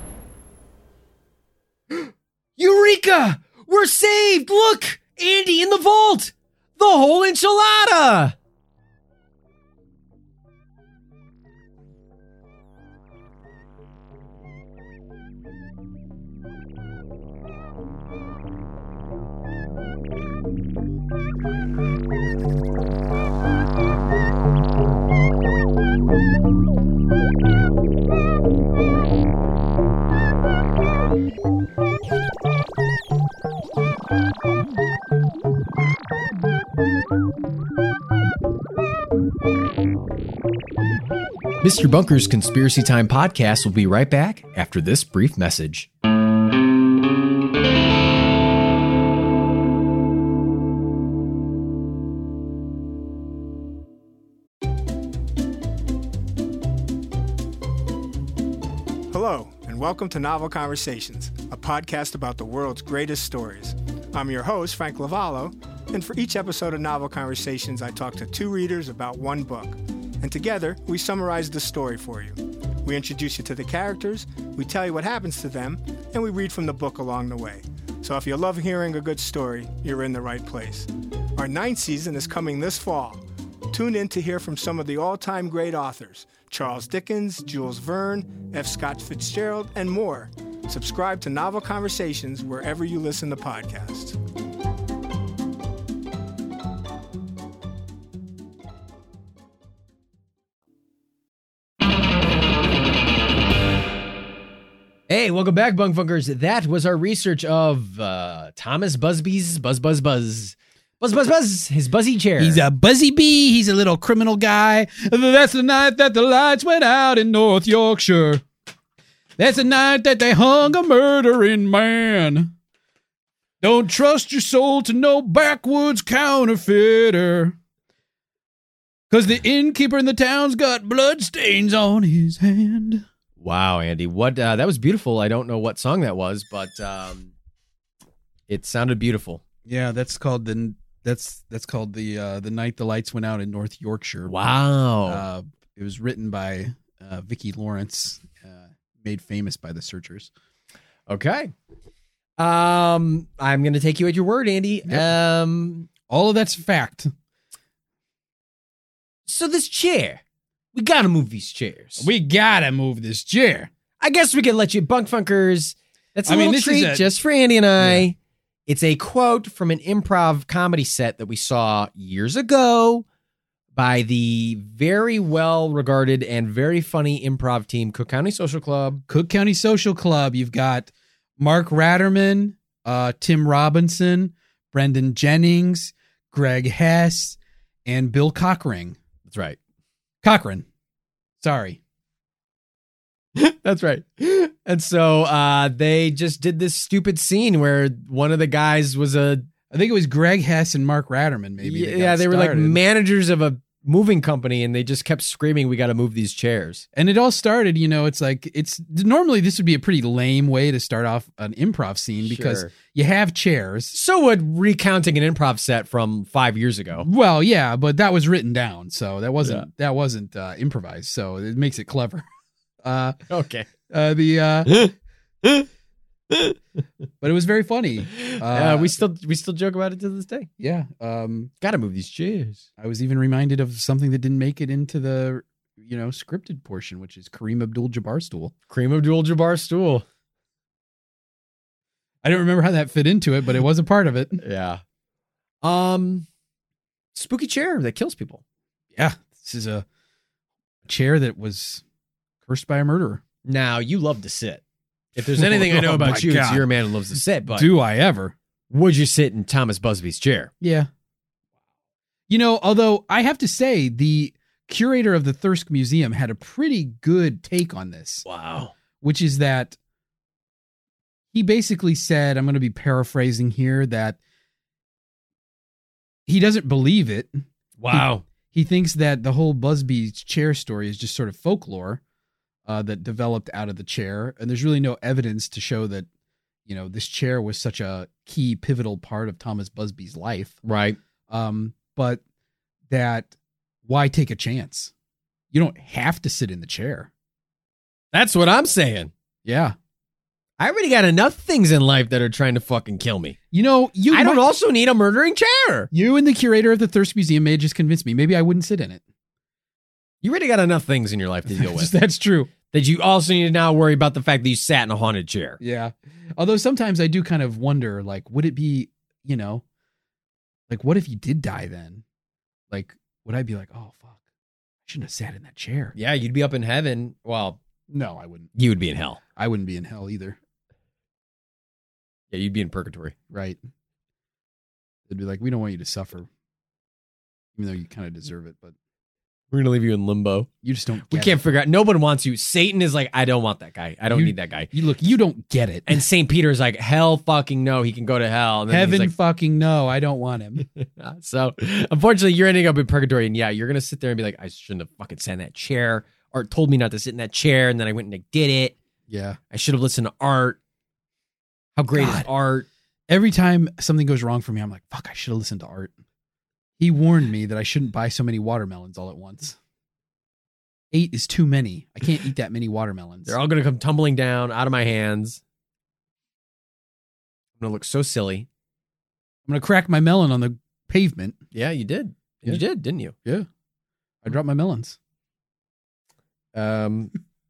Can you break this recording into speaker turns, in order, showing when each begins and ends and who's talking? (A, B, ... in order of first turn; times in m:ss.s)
0:01.9-0:08.4 A
0:41.6-0:45.9 A
0:59.1-1:34.2 B
1:45.1-1:52.6 A
1:52.4-1:58.4 C
1:59.4-2:02.5 C
2:03.6-2:07.6 C
2:09.1-2:13.0 C
2:13.4-2:17.3 A
2:18.5-2:19.4 A
2:19.7-2:24.3 C
2:24.3-2:25.2 A
2:25.1-2:30.3 C
2:31.1-2:31.5 A
2:32.4-2:35.9 A
2:36.1-2:37.1 C
2:39.3-2:40.2 A
2:40.7-2:42.1 A
2:42.0-2:43.7 C
2:44.0-2:48.2 A
2:46.3-2:47.1 C
2:47.8-2:48.1 C
2:48.7-2:53.0 A
2:53.8-2:59.0 A
2:59.1-3:09.0 C
3:09.3-3:09.6 A
3:10.2-3:10.7 C
3:11.4-3:11.8 C
3:13.4-3:19.5 A
3:19.7-3:22.8 C
3:21.6-3:26.8 A
3:26.9-3:34.0 C
3:32.2-3:32.7 A
3:33.9-3:37.1 A
3:37.0-3:42.2 C
3:42.8-3:43.2 C
3:43.3-3:43.7 A
3:43.9-3:44.7 C
3:46.3-3:46.6 A
3:47.2-3:49.0 C
3:48.1-3:50.5 A
3:50.6-3:51.5 C
3:51.6-3:52.6 A
3:52.8-3:58.5 C
3:58.7-4:00.0 A
4:02.2-4:04.4 C
4:04.4-4:04.8 A
4:05.6-4:06.3 A
4:07.1-4:08.4 A
4:09.0-4:09.9 C
4:10.8-4:11.8 C
4:12.4-4:13.2 C
4:13.4-4:14.6 A
4:15.2-4:17.7 A
4:15.2-4:16.7 C
4:17.5-4:18.3 C
4:18.7-4:20.5 A
4:20.6-4:20.9 C
4:22.3-4:28.2 C
4:28.2-4:28.7 A
4:29.0-4:29.8 C
4:31.3-4:34.2 C
4:36.3-4:42.0 C
4:37.8-4:38.2 A
4:42.7-4:46.1 C
4:46.7-4:50.6 C
4:50.6-4:51.0 A
4:51.3-4:52.2 C
4:52.9-4:53.3 C
4:53.8-4:54.9 C
4:55.5-4:57.1 C
4:58.1-4:59.1 A
4:59.4-4:59.8 C
5:00.6-5:03.4 A
5:03.5-5:04.4 C
5:04.1-5:05.9 A
5:05.9-5:09.0 C
5:10.2-5:11.9 A
5:11.5-5:12.5 C
5:12.7-5:15.6 A
5:15.6-5:19.6 C
5:20.7-5:22.0 C
5:22.7-5:24.2 C
5:24.9-5:26.0 C
5:26.0-5:27.6 A
5:27.9-5:28.5 C
5:28.6-5:29.2 A
5:29.4-5:30.4 C
5:32.3-5:33.1 A
5:33.3-5:33.6 C
5:35.1-5:36.3 C
5:37.6-5:38.8 C
5:39.5-5:40.5 A
5:40.6-5:41.4 C
5:41.1-5:44.7 A
5:44.1-5:46.0 C
5:45.9-5:49.1 A
5:48.7-5:50.6 C
5:50.6-5:58.8 A
5:59.1-5:59.4 C
5:59.5-6:00.6 A
6:01.8-6:02.7 A
6:01.9-6:02.3 C
6:03.1-6:05.9 C
6:06.8-6:09.6 C
6:10.9-6:13.4 C
6:13.3-6:15.4 A
6:17.6-6:18.5 A
6:19.5-6:21.4 C
6:21.5-6:23.2 A
6:24.2-6:25.0 C
6:26.5-6:27.1 A